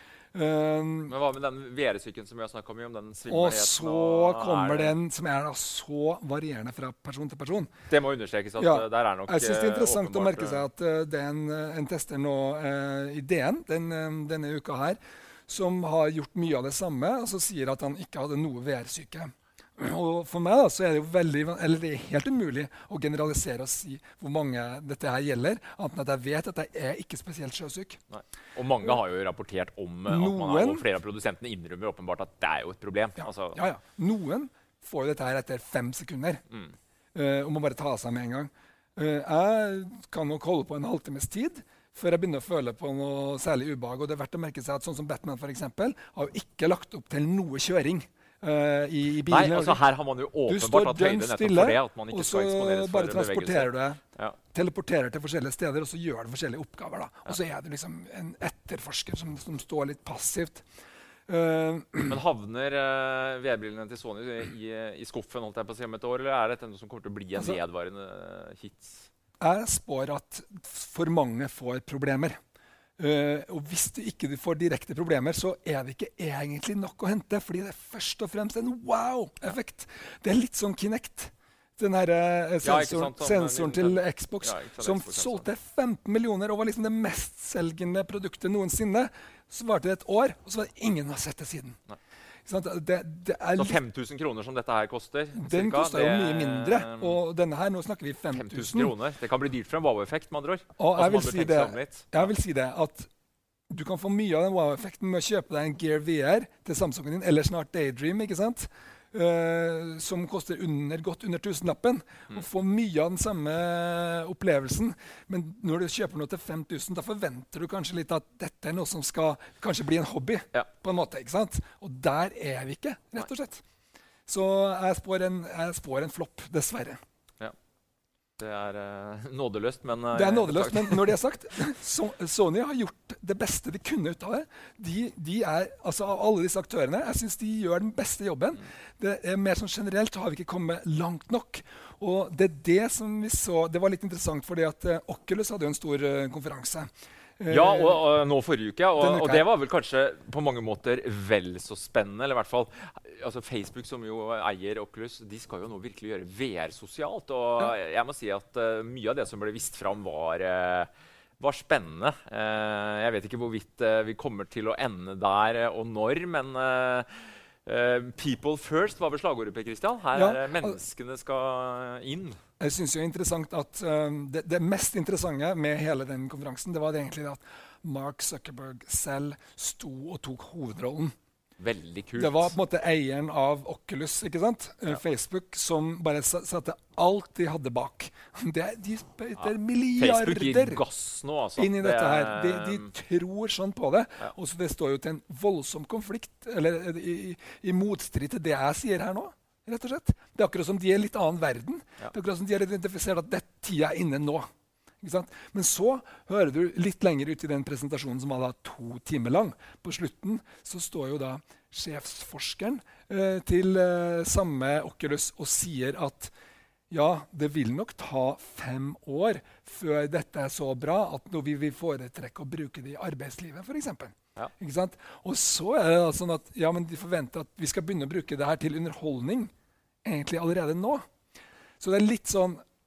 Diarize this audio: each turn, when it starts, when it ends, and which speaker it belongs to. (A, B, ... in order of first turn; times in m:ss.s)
0:00.3-0:01.2 A
0:01.1-0:05.0 B
0:03.3-0:07.7 A
0:07.9-0:10.6 B
0:08.6-0:28.0 A
0:28.1-0:33.6 B
0:30.1-0:30.8 A
0:33.2-0:36.4 A
0:37.1-0:49.8 A
0:49.3-0:54.4 B
0:50.4-0:54.0 A
0:54.5-1:00.6 A
1:01.3-1:02.2 A
1:02.1-1:09.1 B
1:09.4-1:12.4 A
1:13.0-1:31.8 A
1:22.6-1:25.4 B
1:32.4-1:33.8 A
1:33.5-1:37.2 B
1:35.3-1:38.9 A
1:38.3-1:42.3 B
1:40.8-1:43.1 A
1:43.7-2:03.6 A
2:04.3-2:07.0 A
2:08.4-2:11.2 B
2:10.1-2:28.0 A
2:27.5-2:47.1 B
2:29.0-2:29.5 A
2:47.6-2:52.4 B
2:50.1-2:50.8 A
2:52.6-3:01.1 A
3:01.6-3:02.5 B
3:02.2-3:10.8 A
3:09.4-3:12.9 B
3:11.6-3:24.5 A
3:25.0-3:36.3 A
3:36.9-3:49.5 A
3:50.0-3:51.1 A
3:51.8-3:52.6 A